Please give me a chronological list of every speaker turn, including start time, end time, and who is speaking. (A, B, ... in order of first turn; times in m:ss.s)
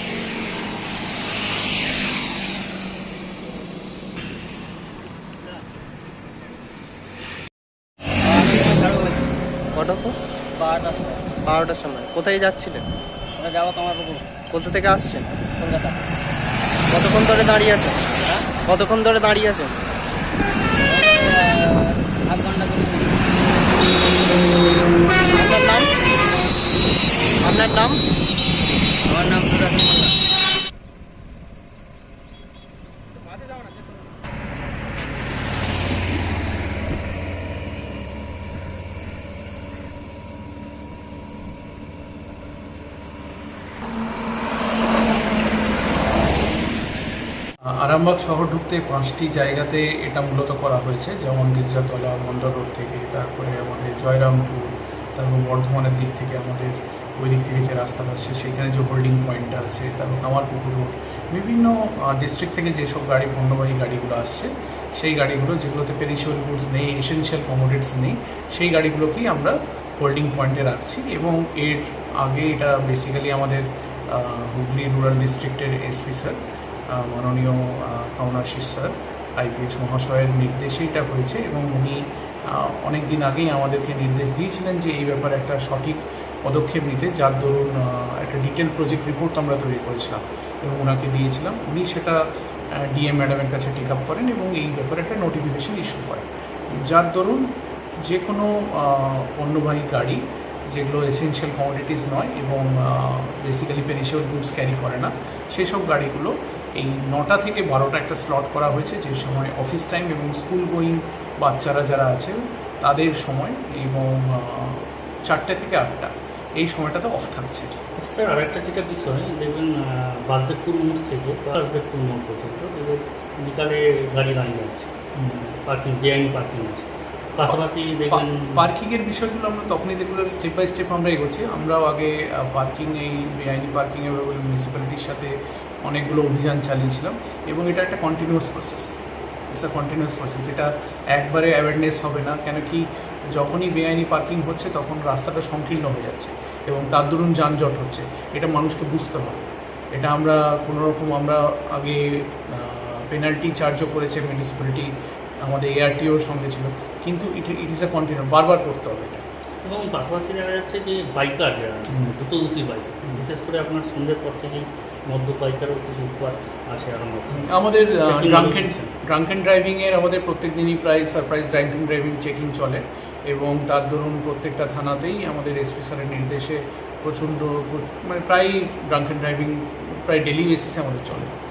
0:08.2-0:09.3 A
0:09.7-0:10.2 B
0:10.6-0:11.3 A
0:11.4-0:12.8 B
0:13.4-0:14.5 A
0:14.5-0:15.3 B
0:15.4-0:16.1 A
0:16.9-0:19.8 B
0:20.8-0:23.6 A
0:25.3-0:25.9 B
0:27.4-0:28.0 B
0:29.0-0:30.1 A
0:47.8-1:16.4 C
1:16.9-1:22.0 C
1:22.5-1:32.2 C
1:32.8-1:37.4 C
1:38.1-1:57.7 C
1:58.0-1:59.7 D
2:00.3-2:08.6 D
2:08.1-2:15.3 C
2:15.8-2:18.9 C
2:19.5-2:34.9 C
2:35.4-2:39.2 C
2:39.6-2:47.5 D
2:47.4-3:01.3 C
2:48.0-2:48.9 D